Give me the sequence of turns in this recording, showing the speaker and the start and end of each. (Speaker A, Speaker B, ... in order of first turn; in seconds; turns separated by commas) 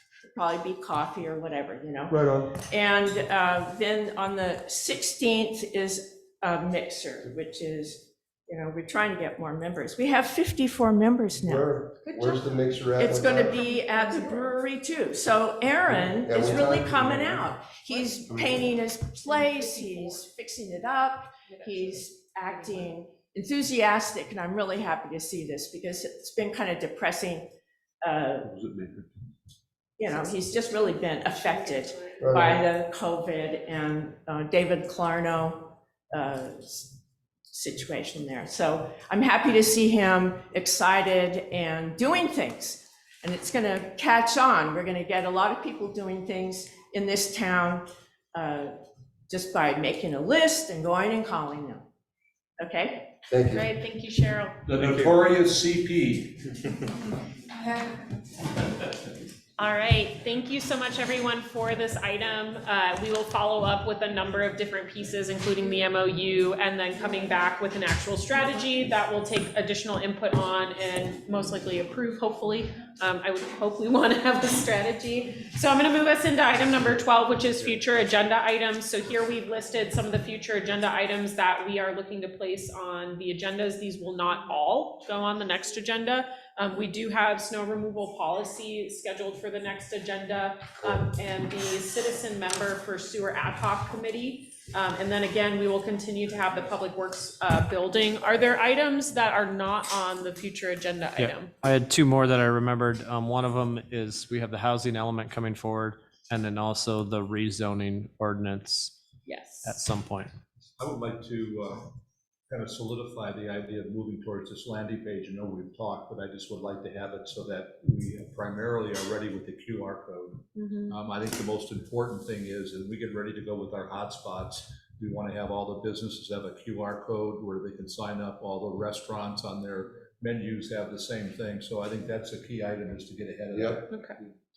Speaker A: 0.3-11.7, Speaker B: 2.1-2.5, Speaker B: 11.4-13.6, Speaker C: 12.1-12.4, Speaker A: 12.9-27.5, Speaker B: 16.2-17.4, Speaker A: 28.0-28.5, Speaker D: 28.4-29.1, Speaker A: 30.0-37.0, Speaker B: 32.2-32.6, Speaker A: 37.5-48.7, Speaker A: 49.3-51.8, Speaker A: 52.6-53.1, Speaker B: 53.3-53.6, Speaker C: 53.5-54.6, Speaker D: 54.7-56.4, Speaker C: 59.6-101.5, Speaker E: 101.2-109.0, Speaker C: 109.2-109.7, Speaker E: 109.6-110.3, Speaker D: 110.8-111.9, Speaker D: 112.5-134.1, Speaker C: 120.5-121.0, Speaker B: 133.5-133.8, Speaker C: 133.9-134.2